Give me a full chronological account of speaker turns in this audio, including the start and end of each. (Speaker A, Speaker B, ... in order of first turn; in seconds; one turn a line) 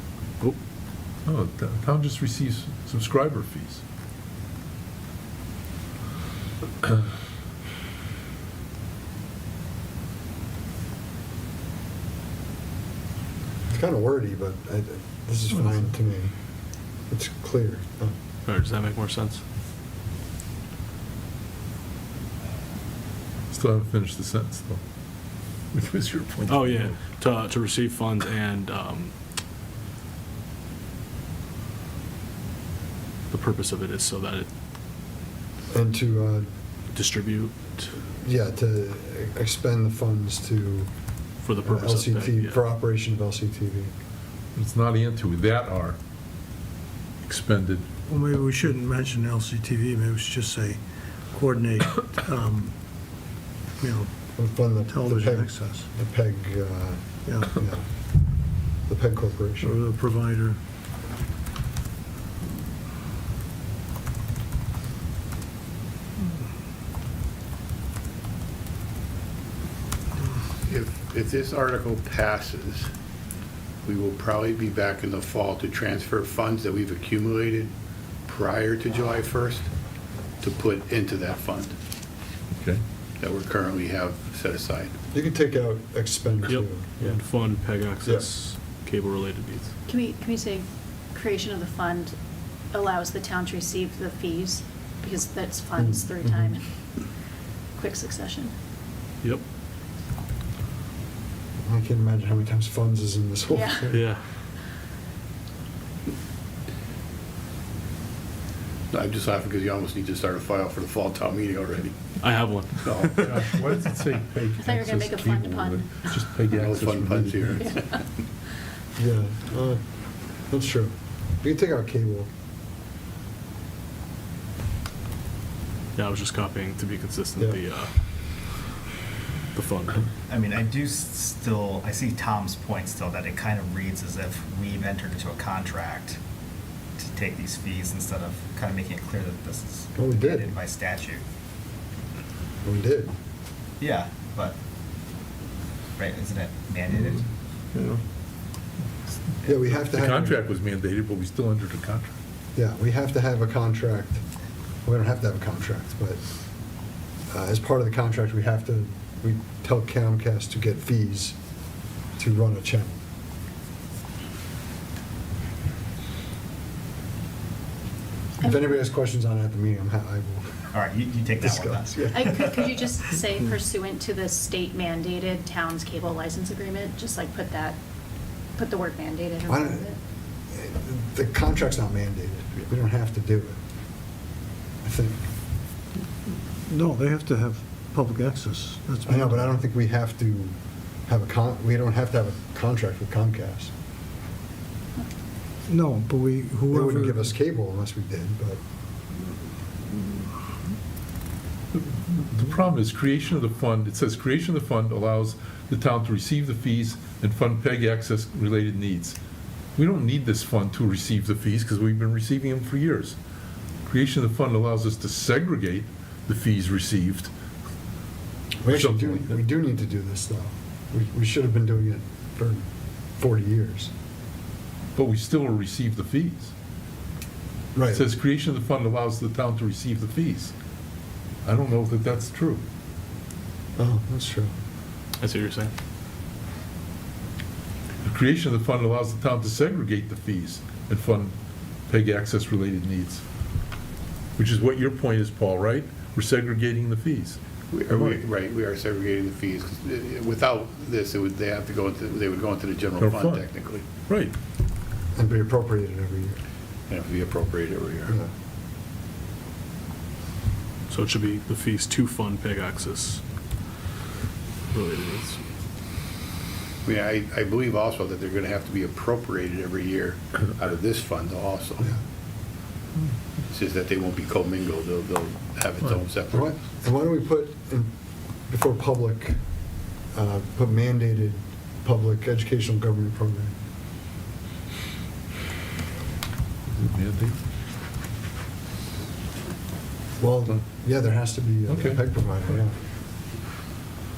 Speaker A: 1.2-3.8
Speaker B: 13.7-16.3
Speaker A: 15.5-15.9
Speaker B: 17.1-18.1
Speaker C: 18.4-19.4
Speaker A: 23.5-24.8
Speaker A: 25.7-27.0
Speaker C: 26.4-29.1
Speaker C: 33.3-34.5
Speaker B: 35.7-36.5
Speaker C: 36.9-37.9
Speaker B: 38.2-40.9
Speaker C: 41.4-42.6
Speaker B: 41.6-43.9
Speaker A: 44.5-46.0
Speaker A: 47.2-47.9
Speaker D: 48.0-52.7
Speaker D: 53.8-54.1
Speaker B: 54.4-57.9
Speaker D: 54.9-55.9
Speaker D: 57.2-57.5
Speaker B: 58.9-59.7
Speaker D: 59.6-60.6
Speaker E: 70.6-72.9
Speaker E: 73.8-77.7
Speaker E: 78.3-79.7
Speaker E: 80.4-81.8
Speaker A: 82.6-82.8
Speaker E: 83.2-85.0
Speaker B: 85.1-87.2
Speaker C: 86.5-89.7
Speaker B: 88.0-88.3
Speaker F: 89.8-92.2
Speaker F: 92.7-96.7
Speaker B: 95.8-96.1
Speaker F: 97.7-98.5
Speaker B: 101.6-104.0
Speaker F: 103.5-103.9
Speaker C: 103.9-104.2
Speaker E: 108.9-112.0
Speaker C: 112.2-113.5
Speaker E: 112.8-113.5
Speaker A: 113.2-117.7
Speaker F: 114.6-116.1
Speaker E: 116.5-117.8
Speaker F: 117.6-118.0
Speaker B: 119.0-119.8
Speaker B: 120.5-122.3
Speaker C: 126.0-127.9
Speaker C: 129.5-130.1
Speaker G: 130.3-136.2
Speaker G: 137.0-141.2
Speaker B: 139.9-140.5
Speaker B: 142.6-143.1
Speaker G: 143.8-144.6
Speaker G: 146.0-147.3
Speaker B: 149.4-150.4
Speaker A: 149.7-152.1
Speaker B: 152.5-154.2
Speaker B: 154.8-156.2
Speaker B: 157.3-161.3
Speaker B: 162.2-163.0
Speaker B: 168.4-170.6
Speaker F: 168.4-168.7
Speaker G: 170.7-172.5
Speaker B: 171.4-172.3
Speaker F: 172.1-177.8
Speaker F: 178.6-180.0
Speaker B: 179.5-179.9
Speaker B: 180.5-183.6
Speaker B: 184.8-185.2
Speaker D: 186.6-189.5
Speaker B: 189.1-193.7
Speaker D: 195.7-197.2
Speaker B: 196.7-198.6
Speaker A: 201.7-209.2
Speaker A: 209.8-213.2
Speaker A: 213.8-217.3
Speaker B: 218.6-222.7
Speaker A: 218.7-219.4
Speaker B: 223.2-223.9
Speaker A: 224.9-226.5
Speaker B: 227.7-228.1
Speaker A: 227.9-230.5
Speaker A: 231.4-232.6
Speaker B: 233.8-234.5
Speaker C: 235.2-235.7
Speaker A: 238.0-241.3
Speaker A: 241.9-243.2
Speaker A: 244.4-248.2
Speaker E: 247.7-253.8
Speaker A: 253.0-253.5
Speaker A: 254.1-254.3
Speaker B: 255.1-256.4
Speaker E: 256.9-258.2
Speaker C: 260.9-263.2
Speaker C: 264.7-265.4
Speaker E: 266.9-271.9
Speaker E: 273.5-276.6
Speaker B: 276.3-277.9
Speaker B: 278.5-279.4
Speaker B: 280.1-283.5
Speaker A: 286.7-287.4
Speaker B: 290.2-292.7
Speaker A: 291.7-292.0